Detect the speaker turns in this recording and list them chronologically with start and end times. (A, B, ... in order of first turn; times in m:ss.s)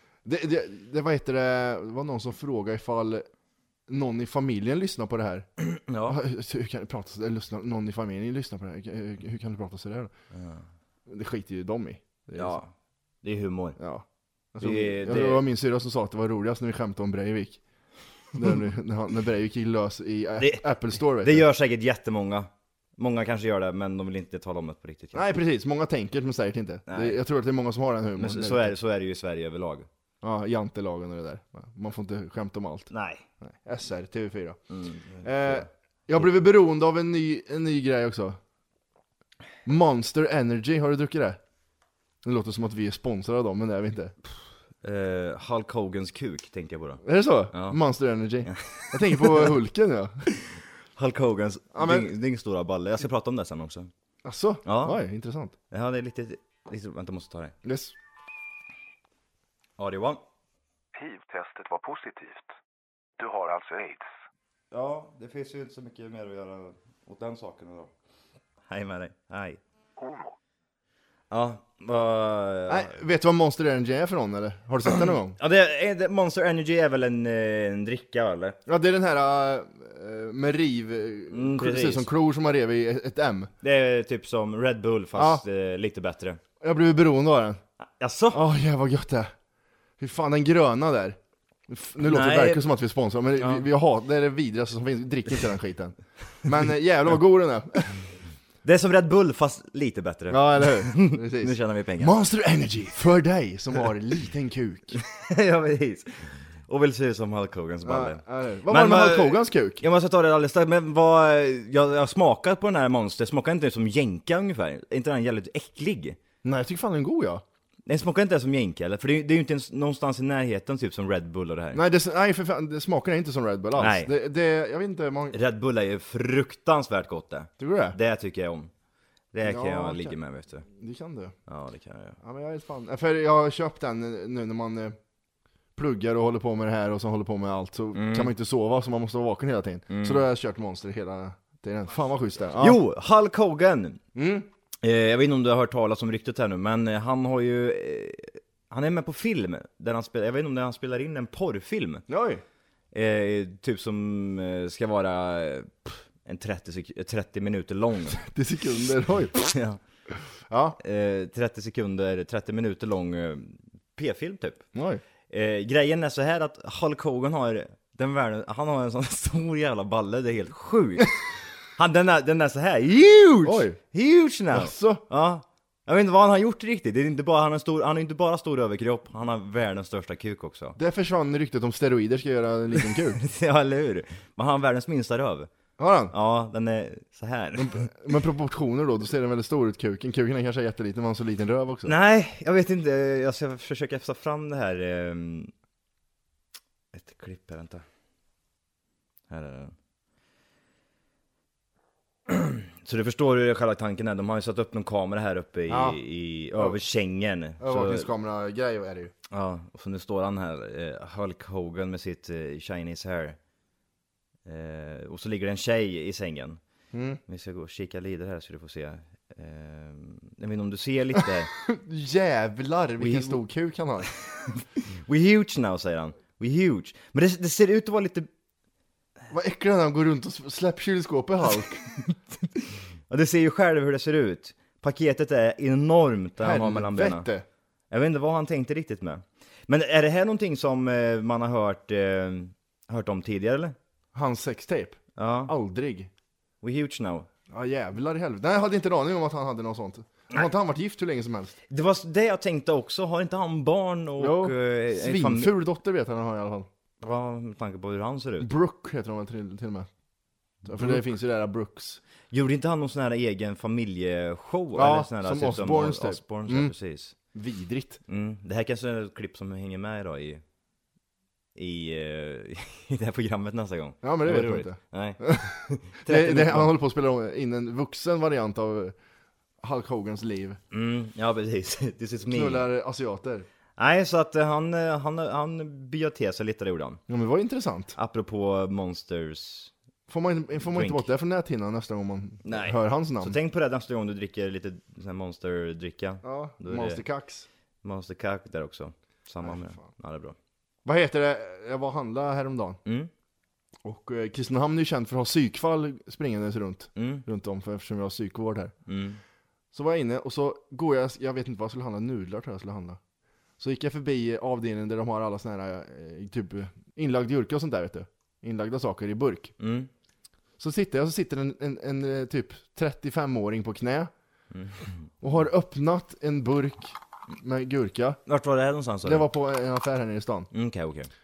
0:00.2-0:03.2 A
0:03.9-0:05.5 A
0:05.6-0:06.2 B
0:06.0-0:10.1 A
0:10.3-0:10.6 B
0:11.1-0:12.6 A
0:12.3-0:12.7 B
0:13.2-0:13.8 B
0:13.8-0:17.6 A
0:14.6-0:15.4 B
0:18.3-0:21.4 A
0:20.4-0:25.3 B
0:25.1-0:28.7 A
0:26.9-0:27.2 B
0:28.2-0:29.9 B
0:30.2-0:34.6 A
0:32.9-0:33.2 B
0:34.7-0:36.3 B
0:35.2-0:38.4 A
0:39.6-0:41.4 A
0:42.2-0:44.1 A
0:44.8-0:47.0 B
0:47.0-0:50.2 A
0:48.4-0:49.5 B
0:51.0-0:53.9 B
0:51.7-0:52.1 A
0:54.2-0:55.5 A
0:54.6-0:55.0 B
0:55.7-0:57.5 B
0:57.6-0:57.9 A
0:59.8-1:00.2 B
1:00.9-1:02.5 C
1:03.2-1:04.1 C
1:04.7-1:07.9 B
1:08.7-1:09.6 B
1:10.0-1:10.3 C
1:11.3-1:12.9 B
1:12.7-1:15.4 A
1:15.4-1:18.6 B
1:18.7-1:23.5 A
1:21.3-1:22.1 B
1:23.6-1:26.4 B
1:25.1-1:25.4 A
1:26.6-1:27.6 A
1:27.8-1:28.4 B
1:28.3-1:29.3 A
1:30.0-1:31.2 A
1:31.7-1:38.0 A
1:32.0-1:32.6 B
1:33.4-1:33.6 B
1:38.6-1:42.2 B
1:40.3-1:45.0 A
1:45.1-1:56.2 B
1:47.8-1:49.8 A
1:56.4-1:57.4 A
1:57.8-2:01.8 B
2:01.7-2:05.4 A
2:03.8-2:04.1 B
2:05.3-2:08.7 B
2:07.6-2:08.0 A
2:09.3-2:10.6 B
2:09.4-2:10.2 A
2:10.7-2:11.3 A
2:11.5-2:12.2 B
2:12.2-2:15.0 A
2:15.8-2:22.8 A
2:17.9-2:18.3 B
2:19.9-2:20.2 B
2:22.6-2:24.0 B
2:24.1-2:24.5 A
2:24.8-2:32.0 B
2:32.1-2:32.4 A
2:32.9-2:38.2 B
2:38.1-2:39.5 A
2:39.4-2:39.8 B
2:40.5-2:40.8 A
2:40.8-2:44.6 B
2:44.7-2:45.0 A
2:45.3-2:51.2 B
2:51.8-3:00.8 B
2:53.4-2:53.8 A
2:54.5-2:55.0 A
3:00.8-3:03.2 A
3:02.9-3:05.5 B
3:05.8-3:06.1 A
3:06.1-3:07.9 B
3:07.5-3:11.9 A
3:11.8-3:15.5 B
3:16.9-3:17.8 B
3:19.3-3:19.7 B
3:22.3-3:28.1 B
3:25.7-3:26.0 A
3:27.6-3:29.1 A
3:29.3-3:33.4 B
3:34.4-3:36.6 B
3:36.9-3:37.2 A
3:37.3-3:41.5 B
3:41.5-3:44.1 A
3:43.0-3:43.4 B
3:44.3-3:48.3 B
3:49.3-3:51.8 A
3:53.1-3:57.3 B
3:56.4-3:57.4 A
3:57.9-4:03.8 B
4:04.1-4:06.1 A
4:05.2-4:05.5 B
4:06.6-4:07.3 B
4:07.5-4:11.5 A
4:11.7-4:15.5 B
4:14.2-4:16.7 A
4:17.0-4:18.5 B
4:18.4-4:19.9 A
4:20.6-4:22.0 A
4:20.7-4:21.0 B
4:22.3-4:27.1 B
4:24.7-4:26.7 A
4:27.3-4:28.0 A
4:28.1-4:30.4 B
4:31.5-4:36.7 B
4:34.0-4:38.9 A
4:39.6-4:40.6 A
4:40.7-4:42.6 B
4:42.3-4:43.4 A
4:43.8-4:47.0 B
4:47.1-4:48.0 A
4:48.0-4:49.7 B
4:50.1-4:53.4 A
4:50.6-4:51.1 B
4:52.4-4:57.0 B
4:56.2-4:57.5 A
4:57.8-5:00.4 B
4:59.4-4:59.9 A
5:00.8-5:02.8 A
5:02.8-5:03.1 B
5:03.8-5:08.7 A
5:07.0-5:07.2 B
5:08.9-5:09.2 B
5:09.7-5:13.0 A
5:13.6-5:19.5 A
5:19.6-5:19.9 B
5:20.6-5:24.1 A
5:24.5-5:24.9 B
5:25.2-5:28.2 A
5:28.3-5:29.3 B
5:29.0-5:30.5 A
5:30.5-5:31.1 B